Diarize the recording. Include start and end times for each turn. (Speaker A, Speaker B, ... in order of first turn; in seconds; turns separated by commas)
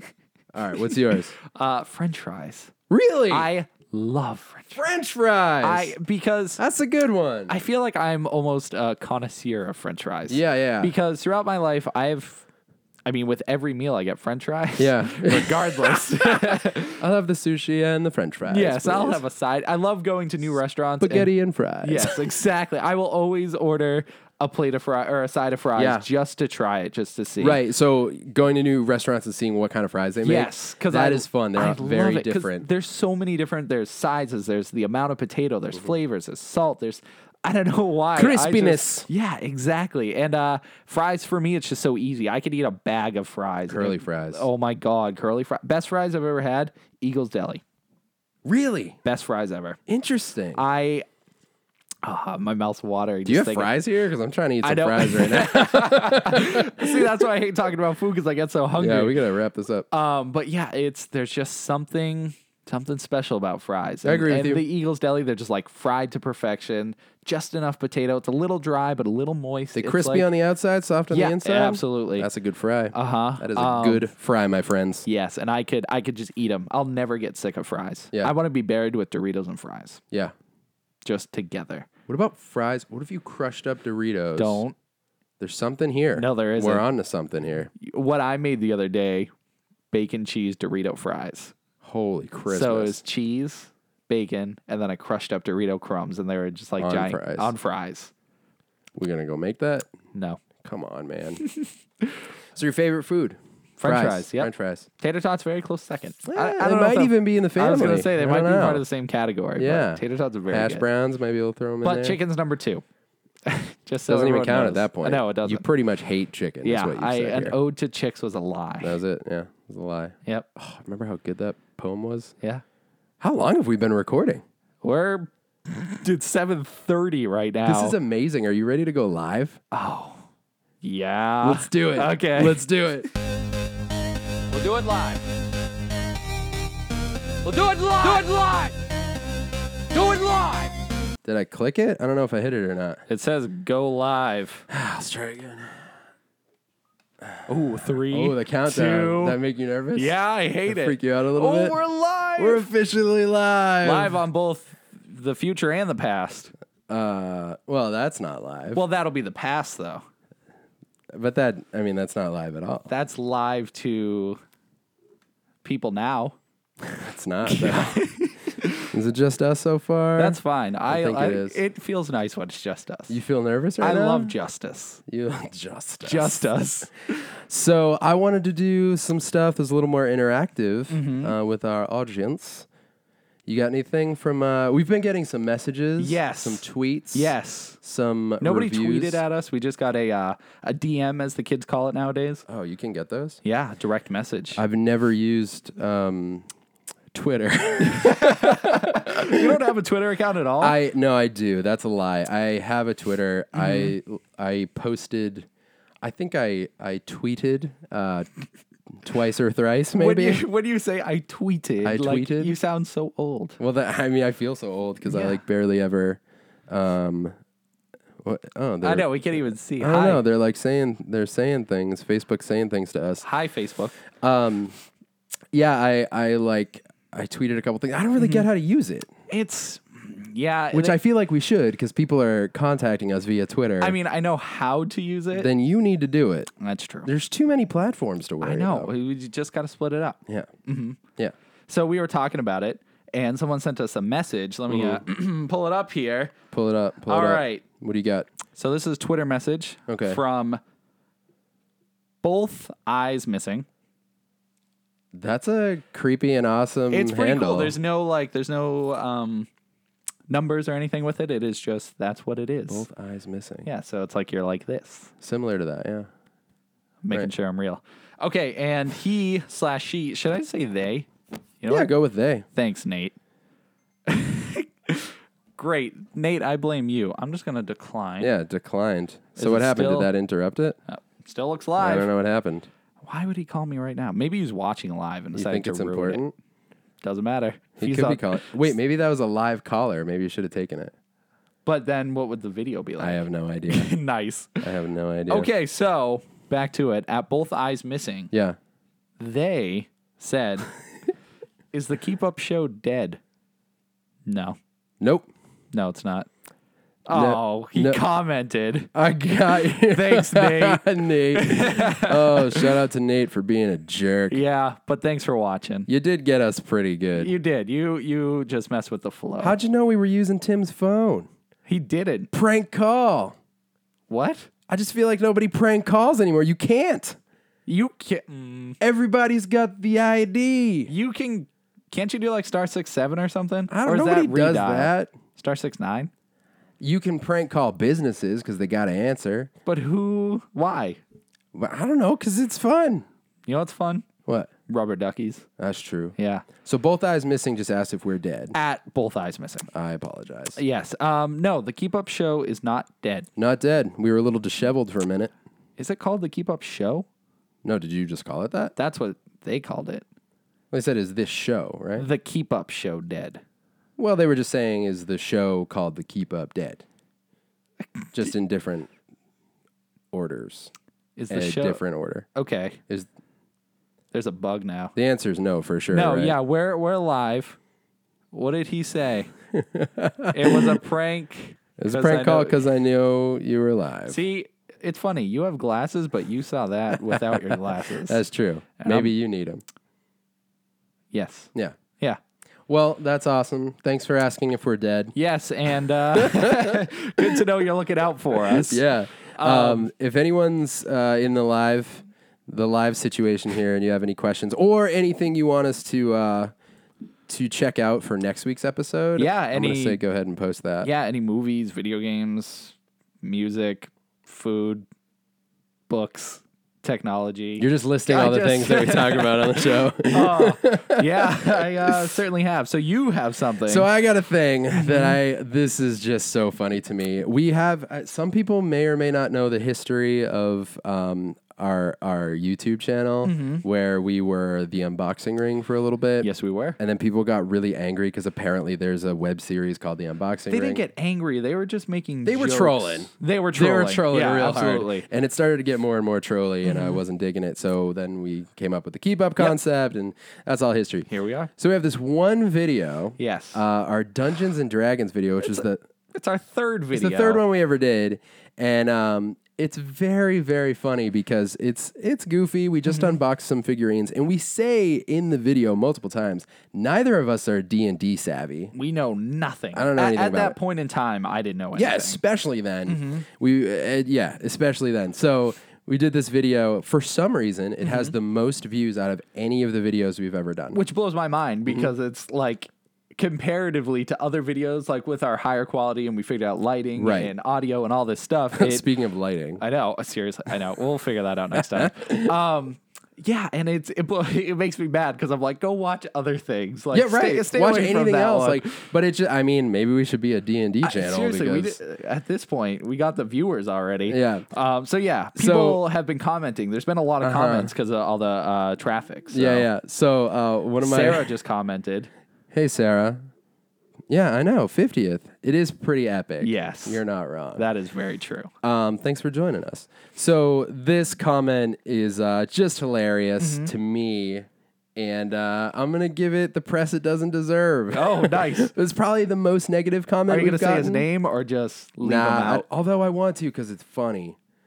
Speaker A: 0.5-1.3, Speaker B: 1.4-2.7, Speaker A: 2.9-3.5, Speaker B: 3.3-4.8, Speaker A: 4.7-5.9, Speaker B: 5.6-6.6, Speaker A: 6.6-7.5, Speaker B: 7.5-12.4, Speaker A: 10.3-10.9, Speaker B: 13.1-17.0, Speaker A: 14.8-19.2, Speaker B: 18.4-21.3, Speaker A: 21.0-22.3, Speaker B: 21.8-27.6, Speaker A: 25.8-26.0, Speaker A: 27.4-32.6, Speaker B: 30.2-47.6, Speaker A: 38.1-39.1, Speaker A: 43.7-44.5, Speaker A: 48.4-49.0, Speaker B: 49.0-49.8, Speaker A: 49.9-50.6, Speaker B: 50.5-51.0, Speaker B: 52.0-53.7, Speaker A: 53.2-57.2, Speaker B: 54.6-59.2, Speaker A: 58.8-59.9, Speaker B: 59.9-70.3, Speaker A: 64.0-64.6, Speaker A: 69.7-75.0, Speaker B: 71.1-72.3, Speaker B: 72.9-74.1, Speaker B: 75.0-80.0, Speaker B: 81.0-81.9, Speaker A: 82.1-84.6, Speaker B: 84.4-84.7, Speaker A: 85.4-87.7, Speaker B: 86.2-86.8, Speaker B: 87.8-89.3, Speaker B: 89.9-91.5, Speaker A: 91.8-93.0, Speaker B: 92.5-98.1, Speaker A: 96.8-97.5, Speaker A: 99.0-99.9, Speaker B: 100.1-100.4, Speaker A: 100.6-101.4, Speaker B: 101.4-102.2, Speaker A: 102.5-104.9, Speaker B: 103.8-110.8, Speaker A: 106.2-108.8, Speaker A: 109.5-112.2, Speaker B: 111.8-112.8, Speaker B: 113.4-115.6, Speaker A: 114.1-117.5, Speaker B: 116.6-119.0, Speaker A: 118.8-122.3, Speaker A: 123.2-124.4, Speaker B: 124.8-128.0, Speaker A: 127.7-129.6, Speaker B: 129.7-130.2, Speaker B: 130.8-132.6, Speaker A: 131.4-133.1, Speaker B: 134.5-135.2, Speaker B: 137.4-138.7, Speaker B: 139.9-140.7, Speaker A: 141.2-143.0, Speaker B: 143.1-144.7, Speaker A: 144.7-145.8, Speaker A: 147.3-151.8, Speaker B: 147.5-149.4, Speaker B: 149.9-152.7, Speaker A: 152.4-154.2, Speaker B: 153.8-156.5, Speaker A: 156.9-158.8, Speaker B: 158.7-160.0, Speaker A: 161.1-162.9, Speaker B: 162.9-164.4, Speaker B: 165.6-166.4, Speaker A: 166.8-168.0, Speaker B: 167.4-168.9, Speaker A: 168.9-171.6, Speaker B: 170.2-173.2, Speaker A: 173.1-174.3, Speaker B: 173.8-175.0, Speaker A: 175.1-176.6, Speaker B: 176.0-177.2, Speaker A: 177.5-182.7, Speaker B: 180.9-181.3, Speaker A: 183.5-189.2, Speaker B: 186.0-187.8, Speaker B: 188.4-192.4, Speaker A: 192.5-193.4, Speaker B: 193.4-194.6, Speaker A: 194.5-196.4, Speaker A: 197.1-199.5, Speaker B: 197.8-200.8, Speaker A: 200.6-205.5, Speaker B: 203.5-203.9, Speaker A: 206.0-208.3, Speaker A: 209.0-210.4, Speaker B: 209.9-213.6, Speaker A: 211.8-212.6, Speaker A: 213.6-217.3, Speaker B: 215.1-215.4, Speaker A: 218.2-219.1, Speaker B: 218.8-220.2, Speaker A: 219.8-223.3, Speaker B: 223.2-224.0, Speaker A: 224.2-224.7, Speaker A: 225.5-229.1, Speaker B: 228.2-228.5, Speaker B: 229.3-231.0, Speaker A: 230.7-233.9, Speaker B: 233.8-235.5, Speaker A: 235.3-236.5, Speaker B: 236.6-237.1, Speaker A: 237.0-238.9, Speaker B: 238.4-241.0, Speaker B: 241.7-246.3, Speaker A: 244.7-245.0, Speaker A: 246.5-248.3, Speaker B: 247.1-247.6, Speaker B: 248.5-250.6, Speaker A: 249.9-250.2, Speaker B: 252.2-253.7, Speaker A: 255.1-257.8, Speaker B: 256.9-259.5, Speaker B: 260.3-262.9, Speaker A: 262.7-263.7, Speaker B: 263.6-265.1, Speaker A: 265.2-266.1, Speaker B: 267.0-271.1, Speaker B: 271.6-271.9, Speaker A: 271.7-272.4, Speaker B: 272.5-273.1, Speaker B: 274.1-278.3, Speaker A: 278.2-280.8, Speaker B: 279.4-280.1, Speaker B: 280.9-282.1, Speaker A: 281.8-282.7, Speaker B: 283.0-286.2, Speaker A: 285.3-286.3, Speaker B: 287.0-288.7, Speaker A: 287.8-290.9, Speaker B: 291.6-294.6, Speaker A: 293.0-293.9, Speaker A: 294.6-295.5, Speaker B: 295.3-298.3, Speaker A: 298.3-298.6, Speaker B: 299.2-300.7, Speaker B: 301.7-303.2, Speaker B: 304.2-304.6, Speaker A: 305.0-305.3, Speaker B: 305.7-306.3, Speaker B: 307.1-308.9, Speaker A: 307.1-308.0, Speaker A: 308.9-314.4, Speaker B: 309.8-312.8, Speaker B: 314.3-315.9, Speaker A: 315.9-317.3, Speaker B: 317.1-319.6, Speaker A: 319.4-321.3, Speaker B: 321.7-322.3, Speaker A: 322.3-323.4, Speaker B: 324.1-324.5, Speaker A: 324.7-327.2, Speaker B: 327.7-328.8, Speaker A: 328.8-330.9, Speaker B: 330.9-336.1, Speaker A: 333.7-335.1, Speaker A: 336.8-339.5, Speaker B: 339.6-341.0, Speaker A: 341.5-343.0, Speaker B: 343.4-344.1, Speaker B: 344.7-345.4, Speaker A: 345.6-348.5, Speaker B: 346.1-346.4, Speaker B: 348.5-349.7, Speaker A: 349.7-350.6, Speaker B: 350.6-353.3, Speaker A: 353.4-355.3, Speaker B: 355.8-357.1, Speaker A: 357.6-358.7, Speaker B: 358.8-360.0, Speaker A: 360.7-362.1, Speaker B: 362.0-363.4, Speaker A: 364.0-366.8, Speaker B: 367.8-368.3, Speaker A: 368.1-368.9, Speaker A: 370.1-370.7, Speaker B: 371.1-371.8, Speaker A: 371.3-372.3, Speaker B: 372.3-372.8, Speaker B: 374.1-374.9, Speaker A: 374.9-376.4, Speaker B: 375.9-377.6, Speaker B: 378.3-379.3, Speaker A: 379.5-380.8, Speaker B: 380.3-382.6, Speaker A: 381.8-384.2, Speaker B: 384.1-388.2, Speaker A: 387.0-389.6, Speaker B: 388.8-389.1, Speaker B: 391.1-392.2, Speaker A: 392.7-395.1, Speaker B: 395.1-398.8, Speaker A: 396.1-397.4, Speaker A: 398.3-406.5, Speaker B: 399.4-399.9, Speaker A: 407.3-410.9, Speaker B: 409.2-410.0, Speaker B: 410.8-414.9, Speaker B: 415.9-423.9, Speaker A: 417.6-422.1, Speaker A: 423.6-440.8, Speaker B: 424.7-425.2, Speaker B: 433.2-433.6, Speaker B: 436.2-436.8, Speaker B: 440.5-445.1, Speaker A: 442.2-455.8, Speaker B: 446.6-447.0, Speaker B: 451.1-451.5, Speaker B: 453.2-453.6, Speaker B: 455.4-457.4, Speaker A: 456.9-468.7, Speaker B: 462.9-463.1, Speaker B: 468.7-472.2, Speaker A: 469.7-470.6, Speaker A: 471.8-480.8, Speaker B: 472.9-473.2, Speaker B: 477.8-478.1, Speaker B: 480.7-488.9, Speaker A: 487.0-487.3, Speaker A: 488.5-489.6, Speaker B: 489.6-498.7, Speaker A: 491.5-492.3, Speaker A: 496.9-501.8, Speaker B: 500.8-509.7, Speaker A: 504.1-504.4, Speaker A: 505.3-505.8, Speaker A: 507.2-507.7, Speaker A: 509.3-511.3, Speaker B: 510.8-512.1, Speaker A: 512.5-513.2, Speaker A: 514.1-517.7, Speaker B: 516.4-517.0, Speaker B: 517.6-518.5, Speaker A: 518.6-531.1, Speaker B: 523.4-523.7, Speaker B: 527.9-528.7, Speaker B: 530.3-532.6, Speaker A: 532.0-534.4